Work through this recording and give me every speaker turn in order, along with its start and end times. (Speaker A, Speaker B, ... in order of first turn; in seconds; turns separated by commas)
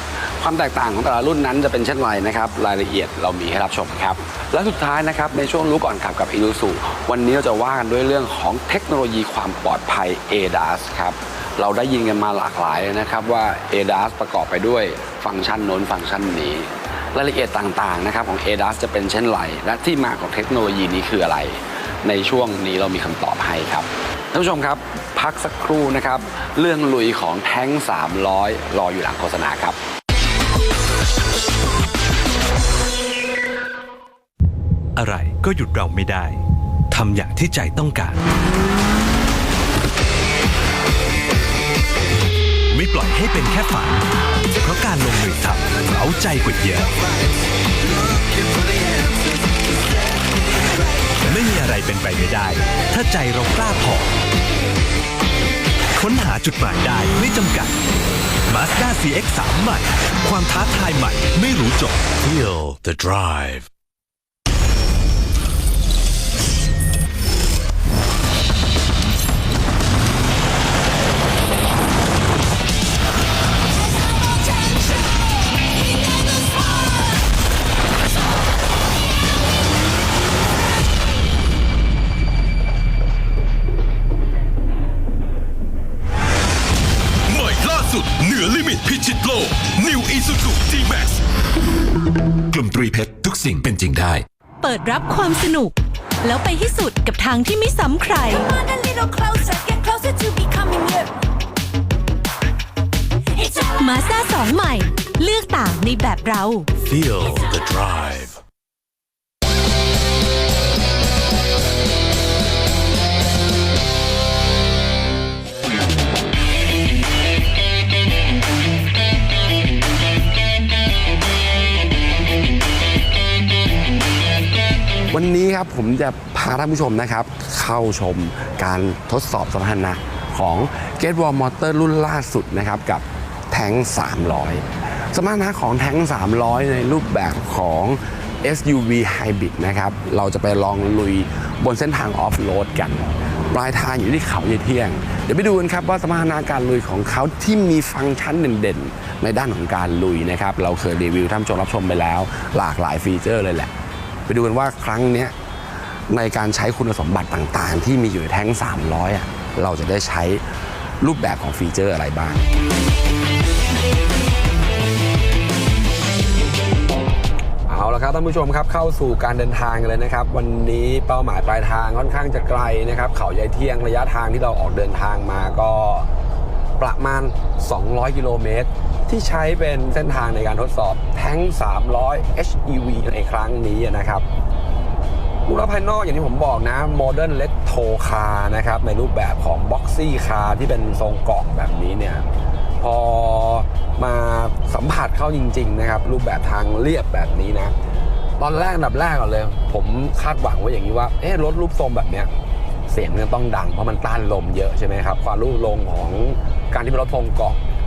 Speaker A: 0.4-29.8, Speaker B: 35.0-38.2, Speaker B: 42.7-44.0, Speaker B: 44.6-47.0, Speaker B: 51.2-54.1, Speaker B: 56.0-57.8, Speaker B: 58.5-62.1, Speaker C: 62.2-63.7, Speaker C: 87.3-91.2, Speaker C: 92.5-94.2, Speaker D: 94.6-98.5, Speaker E: 98.3-101.1, Speaker E: 103.4-104.1, Speaker D: 103.8-106.7, Speaker C: 106.8-108.4, Speaker A: 125.1-153.7, Speaker A: 154.3-155.3, Speaker A: 156.1-160.4, Speaker A: 161.0-162.5, Speaker A: 167.7-176.1, Speaker A: 176.8-184.3, Speaker A: 185.5-192.3, Speaker A: 192.8-197.8, Speaker A: 198.4-202.3, Speaker A: 202.9-207.6